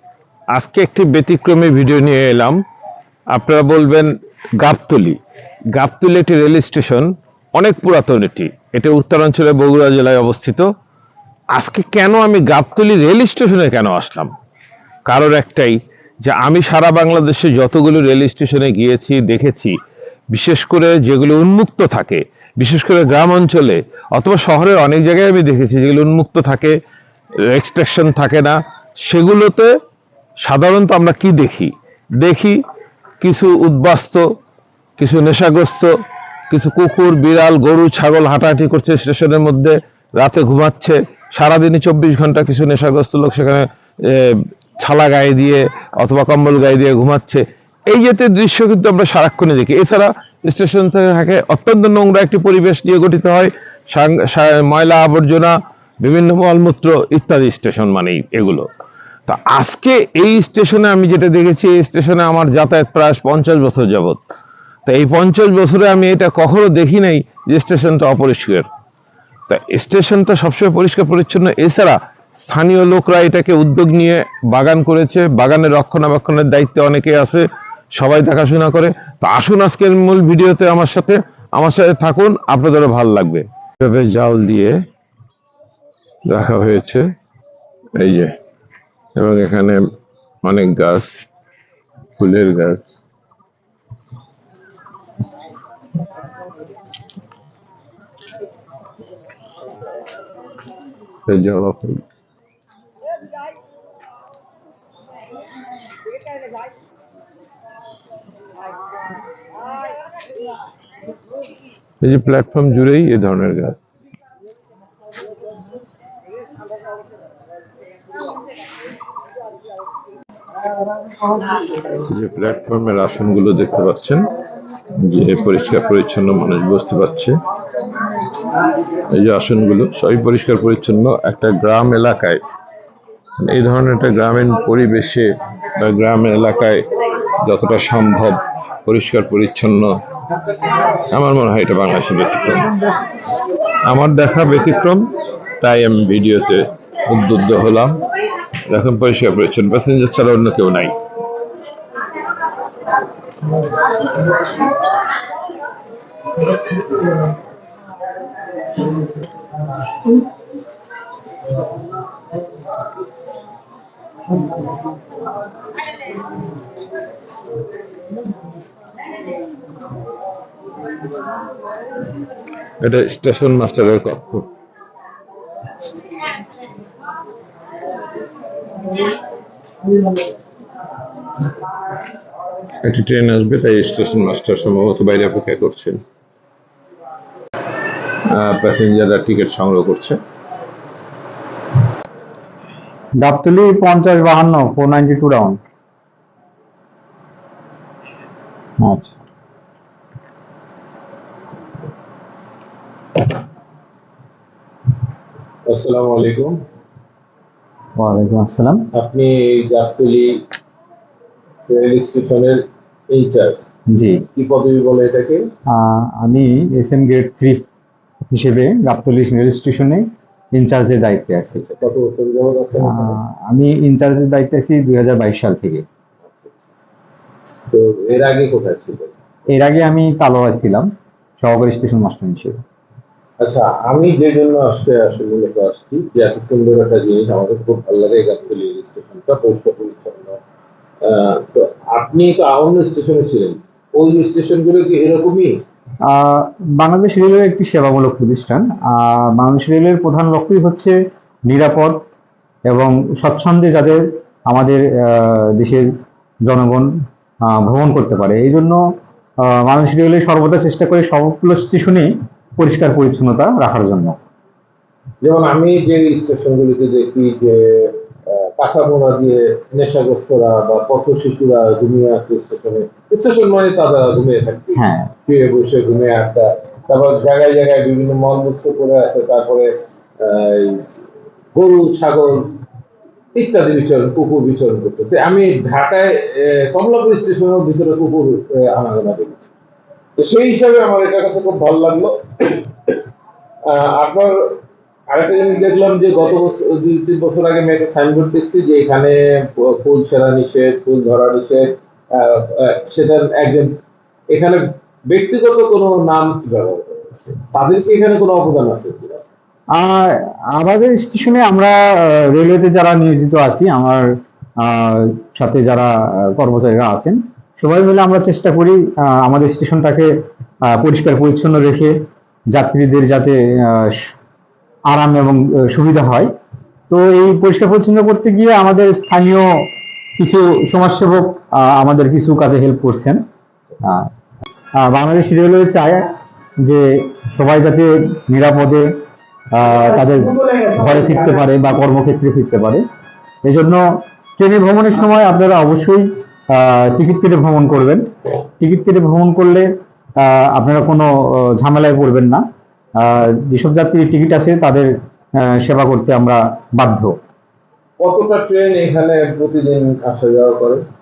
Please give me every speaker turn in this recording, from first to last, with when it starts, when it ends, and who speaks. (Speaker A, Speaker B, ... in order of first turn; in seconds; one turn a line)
Speaker A: 0.5-2.6
Speaker A: 3.3-5.2
Speaker A: 5.7-10.7
Speaker A: 11.5-14.3
Speaker A: 15.1-19.8
Speaker A: 20.3-26.8
Speaker A: 27.5-29.7
Speaker A: 30.4-32.6
Speaker A: 33.2-34.2
Speaker A: 35.0-35.9
Speaker A: 36.5-58.7
Speaker A: 59.3-64.2
Speaker A: 64.9-68.7
Speaker A: 69.5-77.4
Speaker A: 78.0-84.8
Speaker A: 86.3-87.0
Speaker A: 88.0-88.3
Speaker A: 89.2-89.8
Speaker A: 90.4-91.2
Speaker A: 92.2-92.9
Speaker A: 101.3-102.0
Speaker A: 112.0-113.8
Speaker A: 121.9-124.3
Speaker A: 125.0-127.3
Speaker A: 129.0-132.4
Speaker A: 133.4-136.9
Speaker A: 137.4-139.9
Speaker A: 140.9-142.8
Speaker A: 143.8-145.1
Speaker A: 145.6-148.0
Speaker A: 148.7-151.0
Speaker A: 172.8-174.5
Speaker A: 182.8-186.0
Speaker A: 188.3-190.2
Speaker B: 193.2-195.6
Speaker B: 198.8-199.2
Speaker A: 205.7-206.6
Speaker B: 208.0-208.9
Speaker A: 208.9-210.4
Speaker A: 211.7-213.7
Speaker B: 213.9-214.2
Speaker A: 214.4-215.5
Speaker B: 215.7-217.6
Speaker B: 218.3-221.6
Speaker A: 221.6-223.2
Speaker B: 222.8-225.8
Speaker A: 226.2-226.5
Speaker A: 227.7-229.1
Speaker B: 229.5-230.9
Speaker B: 231.4-232.6
Speaker A: 233.4-240.4
Speaker A: 241.0-245.5
Speaker B: 246.1-251.0
Speaker B: 251.5-252.0
Speaker B: 252.7-255.9
Speaker B: 256.5-256.9
Speaker B: 257.5-258.8
Speaker B: 259.5-264.2
Speaker A: 265.2-279.7
Speaker B: 274.8-275.1
Speaker A: 280.2-280.9
Speaker A: 281.5-282.5
Speaker A: 283.4-289.5
Speaker A: 290.2-292.7
Speaker A: 293.7-294.4
Speaker A: 295.1-303.7
Speaker A: 304.3-309.2
Speaker B: 309.8-314.1
Speaker B: 314.6-320.1
Speaker B: 320.7-321.9
Speaker B: 322.5-324.1
Speaker B: 324.9-326.3
Speaker B: 326.9-329.7
Speaker B: 330.2-333.2
Speaker B: 333.8-334.1
Speaker B: 334.8-336.1
Speaker B: 336.6-338.9
Speaker B: 339.5-342.8
Speaker B: 343.4-343.9
Speaker B: 344.4-349.7
Speaker B: 350.2-352.4
Speaker B: 353.0-354.9
Speaker B: 355.4-357.2
Speaker A: 358.0-360.8